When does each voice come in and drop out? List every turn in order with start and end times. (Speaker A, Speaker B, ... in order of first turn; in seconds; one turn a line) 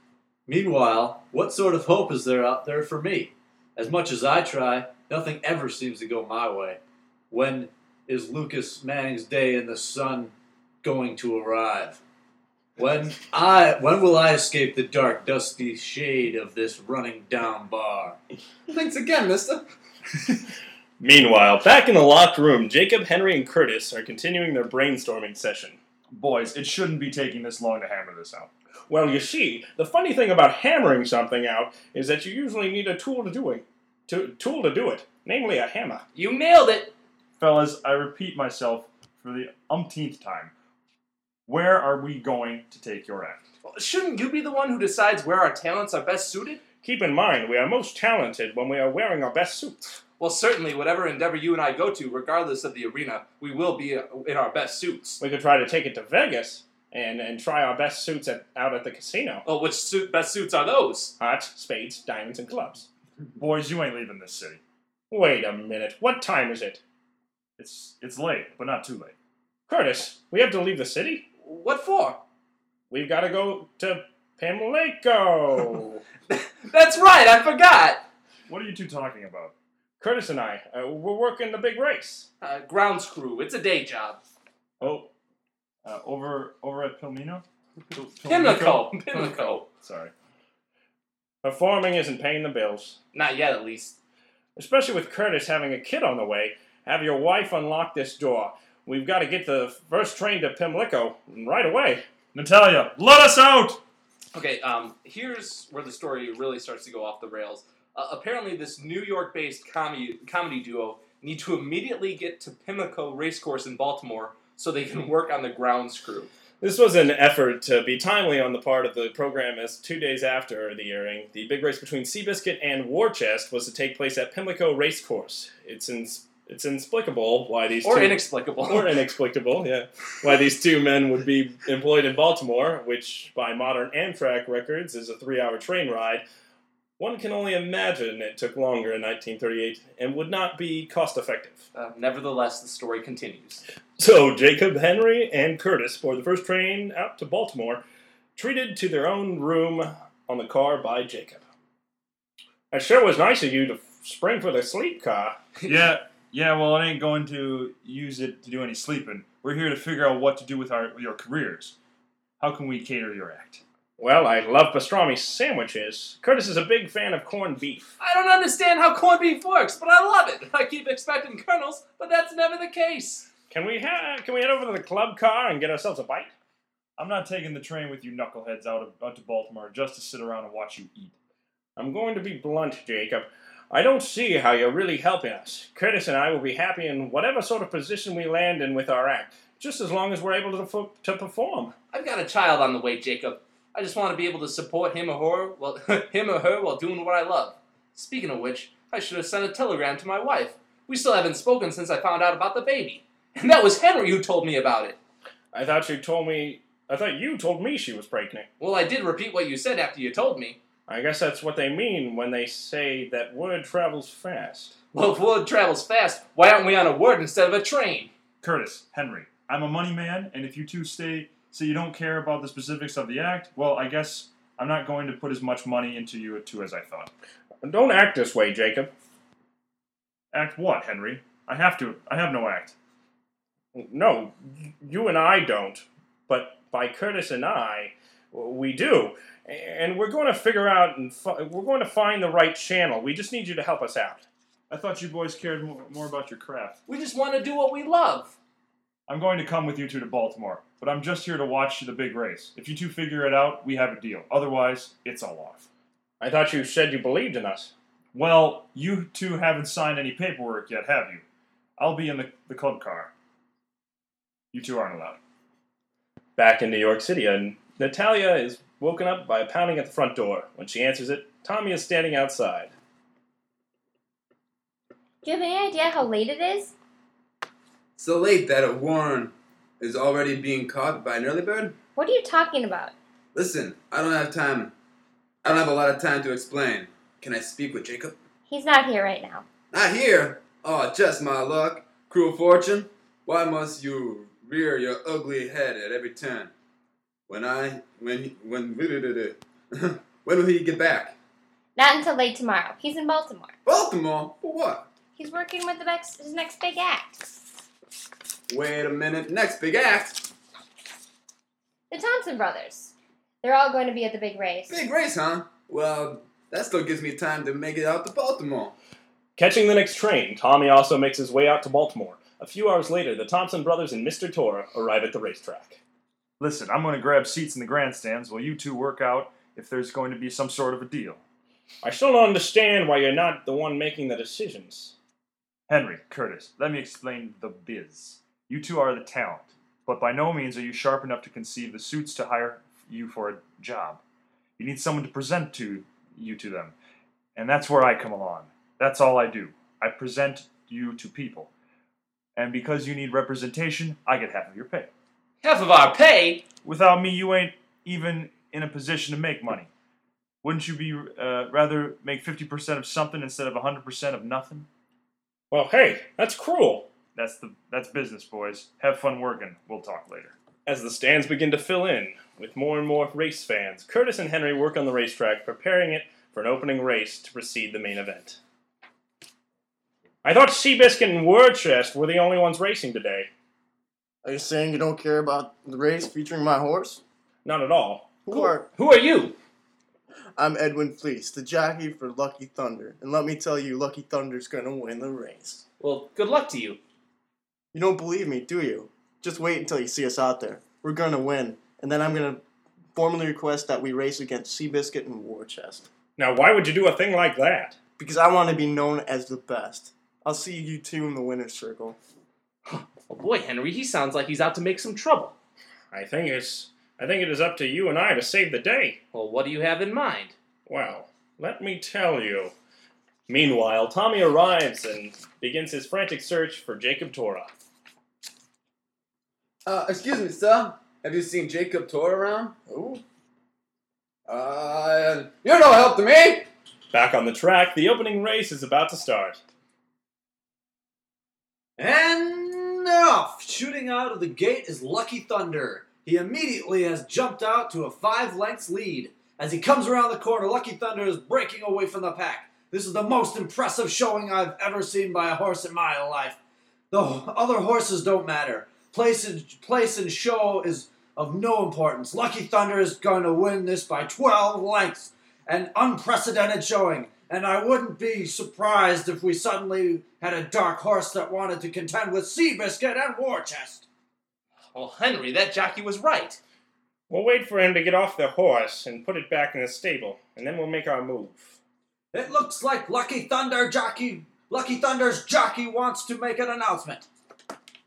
Speaker A: 0.5-12.0
Speaker A: 12.8-18.2
Speaker B: 18.7-19.6
Speaker C: 21.0-25.8
Speaker D: 26.1-28.5
Speaker C: 28.9-36.0
Speaker E: 36.1-36.9
Speaker D: 37.4-40.5
Speaker D: 41.5-43.4
Speaker E: 43.6-46.6
Speaker C: 46.8-50.0
Speaker E: 50.2-55.2
Speaker C: 55.2-59.4
Speaker E: 59.5-61.1
Speaker C: 61.2-62.9
Speaker D: 63.4-64.6
Speaker C: 65.1-66.8
Speaker D: 67.6-69.2
Speaker C: 69.7-71.3
Speaker E: 71.4-72.2
Speaker C: 72.9-76.0
Speaker E: 76.3-78.1
Speaker D: 78.5-79.5
Speaker C: 80.0-82.3
Speaker E: 82.4-84.2
Speaker D: 84.8-85.1
Speaker D: 85.8-90.1
Speaker E: 88.3-89.7
Speaker C: 91.4-93.0
Speaker E: 93.1-94.0
Speaker C: 94.6-102.0
Speaker D: 102.3-103.8
Speaker E: 104.3-116.3
Speaker C: 116.6-136.2
Speaker E: 127.8-128.9
Speaker C: 137.0-141.6
Speaker E: 141.8-143.6
Speaker C: 144.0-147.8
Speaker C: 148.4-151.4
Speaker C: 152.7-155.4
Speaker D: 155.7-161.8
Speaker D: 162.4-163.6
Speaker C: 164.0-167.9
Speaker E: 168.0-173.3
Speaker C: 173.5-176.3
Speaker D: 177.0-181.2
Speaker C: 181.8-191.7
Speaker E: 191.9-205.0
Speaker C: 205.5-208.5
Speaker E: 208.6-210.6
Speaker C: 210.9-214.7
Speaker E: 214.9-218.1
Speaker D: 218.4-227.1
Speaker C: 227.6-228.9
Speaker D: 230.3-232.8
Speaker C: 233.8-244.2
Speaker D: 244.7-246.8
Speaker E: 246.9-248.4
Speaker D: 249.1-255.7
Speaker C: 256.2-257.7
Speaker D: 258.1-261.2
Speaker D: 261.8-263.1
Speaker D: 264.5-265.2
Speaker C: 266.4-272.7
Speaker F: 275.2-276.7
Speaker B: 278.0-281.8
Speaker F: 282.0-282.9
Speaker B: 283.4-284.7
Speaker B: 285.4-288.2
Speaker F: 288.5-289.4
Speaker B: 289.7-296.5
Speaker B: 297.3-301.2
Speaker F: 301.8-303.5
Speaker B: 303.7-304.9
Speaker F: 305.2-307.4
Speaker B: 308.5-310.3
Speaker F: 311.9-314.8
Speaker B: 314.7-318.8
Speaker C: 319.4-325.8
Speaker D: 326.4-331.2
Speaker C: 331.8-334.9
Speaker D: 335.7-344.0
Speaker D: 344.6-346.8
Speaker D: 347.4-351.5
Speaker D: 352.4-354.9
Speaker E: 355.4-356.4
Speaker D: 356.6-359.7
Speaker D: 360.4-364.7
Speaker C: 365.5-366.9
Speaker D: 367.1-370.4
Speaker C: 370.7-378.4
Speaker C: 380.2-383.3
Speaker G: 384.2-387.0
Speaker C: 387.4-388.2
Speaker G: 388.2-388.7
Speaker E: 388.3-389.4
Speaker G: 390.4-395.6
Speaker E: 395.8-396.8
Speaker G: 397.7-402.4
Speaker G: 402.9-405.9
Speaker C: 406.2-407.8
Speaker G: 408.0-412.0
Speaker E: 412.7-415.4
Speaker C: 415.9-419.0
Speaker E: 419.1-420.4
Speaker C: 420.7-422.5
Speaker C: 423.3-427.5
Speaker B: 429.7-432.6
Speaker G: 432.7-433.0
Speaker B: 434.3-436.5
Speaker C: 436.9-439.4
Speaker A: 441.8-456.4
Speaker A: 456.9-473.9
Speaker E: 474.7-476.4
Speaker C: 477.1-481.6
Speaker A: 482.1-487.1